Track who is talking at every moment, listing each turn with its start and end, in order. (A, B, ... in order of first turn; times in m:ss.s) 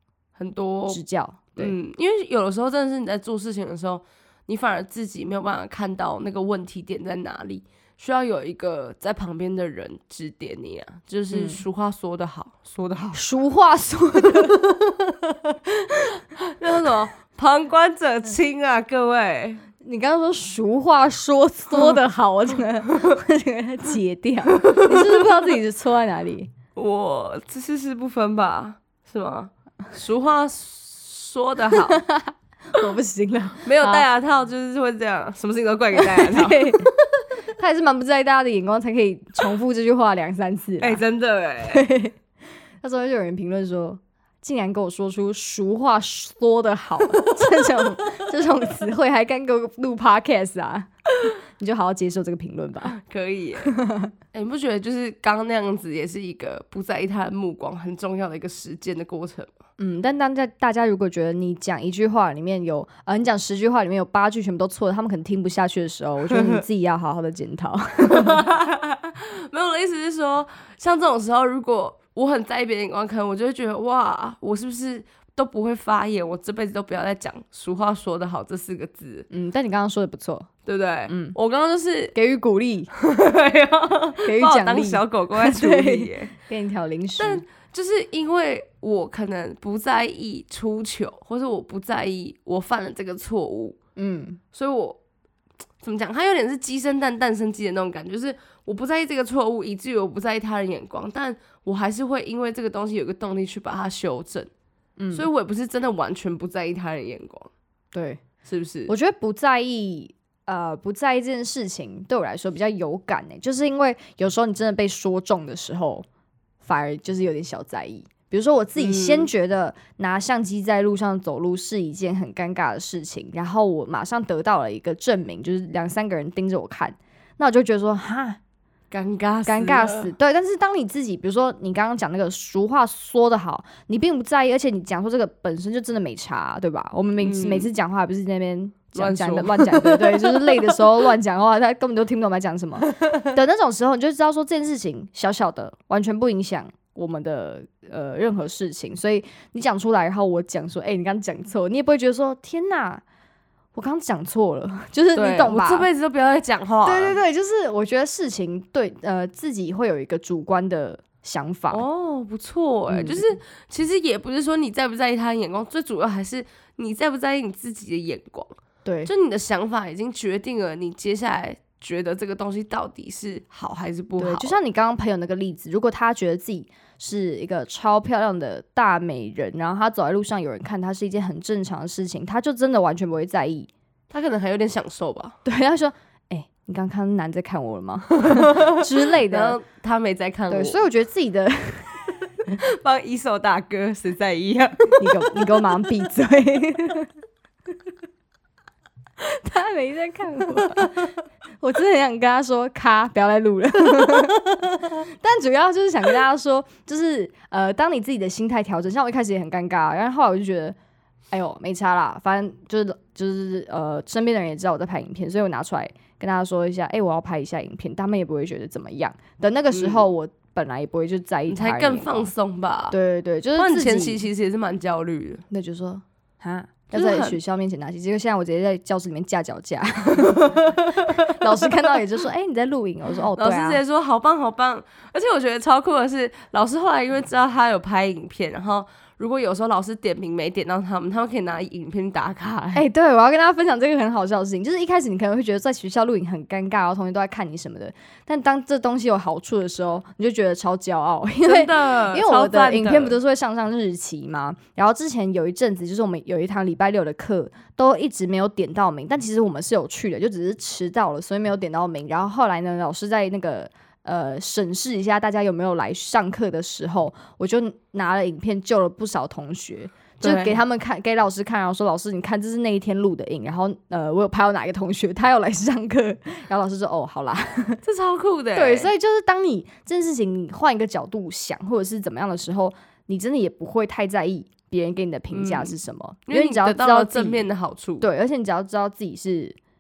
0:00.4-0:01.0 A
0:00.9-0:01.8 B
0:01.6-0:13.2 A
0:11.3-0:11.6 B
0:13.1-0:14.6 B
0:14.3-0:19.6 A
0:19.8-0:26.5 B
0:24.6-0:25.2 A
0:26.8-0:32.0 A
0:31.9-0:34.1 B
0:33.6-0:36.9 A
0:36.0-0:36.9 B
0:37.6-0:41.0 B
0:40.8-0:41.9 A
0:41.6-0:42.2 B
0:42.8-0:50.9 B
0:51.6-0:53.0 B
0:52.8-0:53.7 A
0:53.6-0:54.1 B
0:54.3-0:59.5 A
0:59.8-1:08.4 B
1:06.3-1:06.6 A
1:08.0-1:19.3 A
1:19.3-1:20.5 B
1:20.7-1:22.1 A
1:21.1-1:21.4 B
1:22.2-1:22.9 B
1:23.0-1:26.3 A
1:24.2-1:27.4 B
1:27.2-1:33.8 A
1:34.0-1:34.4 B
1:34.5-1:35.0 A
1:35.8-1:44.5 A
1:45.0-1:45.3 B
1:45.1-1:47.5 A
1:47.9-1:48.2 B
1:48.4-1:48.9 A
1:48.9-1:56.1 B
1:56.6-2:08.4 B
1:58.8-1:59.3 A
2:08.9-2:10.1 A
2:09.5-2:33.0 B
2:17.2-2:17.7 A
2:18.9-2:20.8 A
2:22.9-2:23.2 A
2:33.8-2:35.9 B
2:35.1-2:37.2 A
2:36.8-2:41.8 B
2:41.7-2:54.6 A
2:42.9-2:43.3 B
2:48.8-2:49.1 B
2:54.2-3:03.7 B
3:04.1-3:05.4 A
3:05.4-3:09.6 B
3:08.3-3:10.8 A
3:10.5-3:12.0 B
3:12.5-3:15.3 A
3:15.0-3:17.1 B
3:19.2-3:21.0 B
3:21.6-3:30.8 B
3:24.0-3:24.3 A
3:31.3-3:42.3 B
3:39.7-3:40.1 A
3:41.5-3:43.0 A
3:42.9-3:44.2 B
3:43.6-3:45.4 A
3:45.5-3:53.8 B
3:46.9-3:47.4 A
3:50.1-3:52.0 A
3:53.4-4:02.8 A
4:02.7-4:37.8 B
4:11.4-4:13.2 A
4:30.2-4:30.6 A
4:37.8-4:38.9 A
4:38.6-4:47.5 B
4:45.3-4:45.7 A
4:46.3-4:48.1 A
4:48.0-4:49.6 B